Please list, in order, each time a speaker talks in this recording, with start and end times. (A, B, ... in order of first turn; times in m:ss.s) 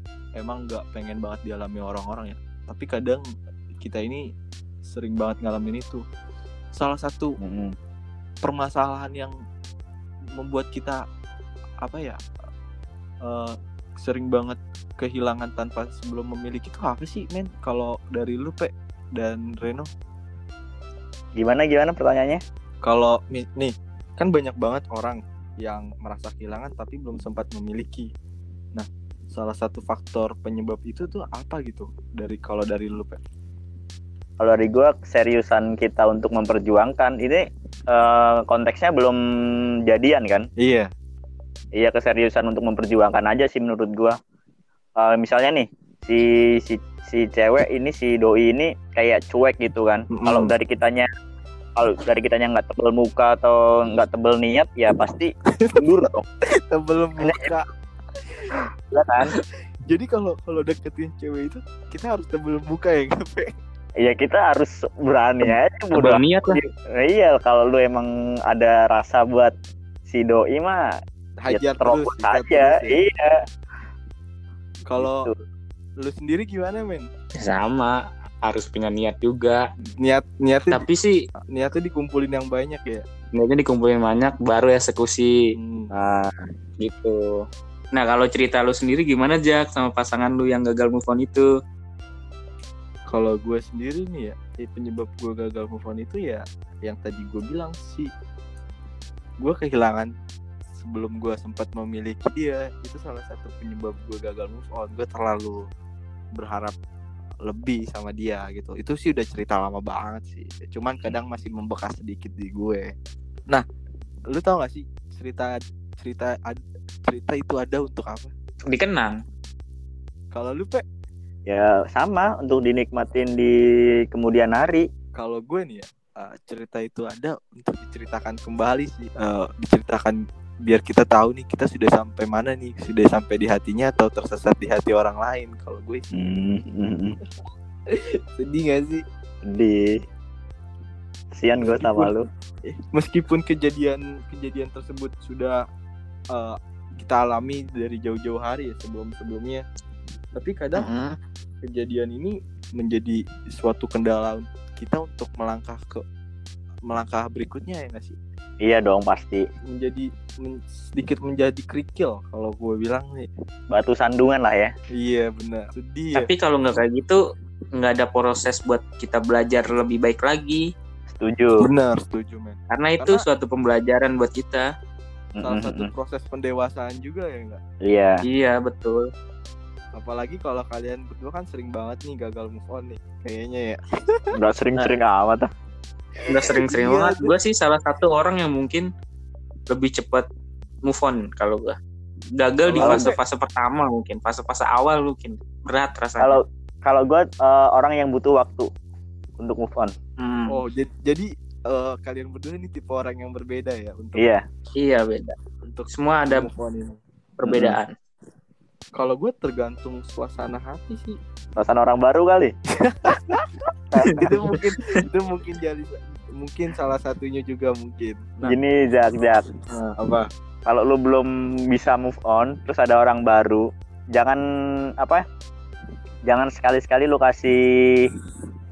0:00.4-0:03.2 A
0:03.8-0:04.2 A
0:04.8-0:06.0 A
0:06.8-0:07.4 A
0:07.4-0:07.8 B
0:08.4-0:09.3 A
0:10.4-0:11.0 A
0:11.8-0:12.2 A
0:13.2-0:19.9 A
0:21.4-0:22.4 B
0:22.8-0:28.1 A
0:28.8-0:33.2 A
0:34.4-0:39.2 B
0:39.9-0:40.5 B
0:40.6-0:40.9 A
0:41.8-0:44.2 B
0:45.0-0:51.1 B
0:50.1-0:50.5 A
0:51.8-0:56.2 B
0:55.6-0:57.6 A
0:57.2-0:57.5 B
0:58.9-0:59.4 B
0:59.9-1:03.5 A
1:04.0-1:09.6 B
1:05.4-1:06.6 C
1:10.1-1:10.9 B
1:11.4-1:13.0 A
1:11.5-1:13.3 B
1:14.9-1:15.3 A
1:15.0-1:15.4 B
1:16.0-1:17.1 A
1:17.4-1:19.6 C
1:20.0-1:20.8 A
1:20.7-1:21.1 C
1:21.5-1:23.0 A
1:23.4-1:25.3 C
1:25.6-1:25.9 A
1:25.9-1:26.3 B
1:26.8-1:31.5 C
1:33.1-1:38.1 A
1:39.4-1:40.1 A
1:40.8-1:45.6 A
1:46.4-1:46.8 A
1:47.4-1:52.9 A
1:54.3-1:58.3 A
1:58.7-1:59.2 C
2:00.3-2:00.8 A
2:01.5-2:03.6 B
2:04.1-2:04.9 B
2:05.2-2:16.1 A
2:16.1-2:17.2 B
2:17.9-2:19.0 A
2:19.5-2:20.0 B
2:21.4-2:22.2 B
2:21.6-2:22.1 A
2:22.6-2:25.6 A
2:26.3-2:29.6 A
2:30.4-2:30.9 A
2:30.8-2:31.1 B
2:31.6-2:36.0 A
2:36.9-2:38.2 A
2:38.6-2:39.4 B
2:39.7-2:43.3 A
2:43.7-2:44.7 B
2:45.0-2:46.3 A
2:46.1-2:47.2 C
2:47.8-2:50.6 C
2:51.1-2:51.7 B
2:51.6-2:53.2 A
2:52.7-2:54.6 C
2:55.4-2:55.9 B
2:55.4-2:57.6 A
2:57.9-2:58.2 B
2:58.3-2:59.1 C
2:59.9-3:04.3 A
3:04.4-3:05.5 B
3:06.3-3:08.9 C
3:06.4-3:07.3 A
3:09.7-3:10.3 C
3:10.8-3:11.8 C
3:12.4-3:16.4 C
3:12.6-3:13.2 A
3:12.8-3:13.1 B
3:16.2-3:18.7 B
3:19.4-3:19.9 B
3:20.2-3:20.6 C
3:20.5-3:24.3 A
3:24.2-3:24.4 B
3:24.8-3:25.4 C
3:25.6-3:27.0 A
3:25.9-3:26.5 C
3:27.4-3:27.9 C
3:27.5-3:27.8 B
3:29.0-3:31.2 A
3:31.6-3:32.5 B
3:32.8-3:38.6 A
3:33.9-3:34.2 B
3:34.0-3:34.8 C
3:38.4-3:39.4 B
3:39.7-3:40.3 A
3:40.6-3:44.4 B
3:46.3-3:48.0 B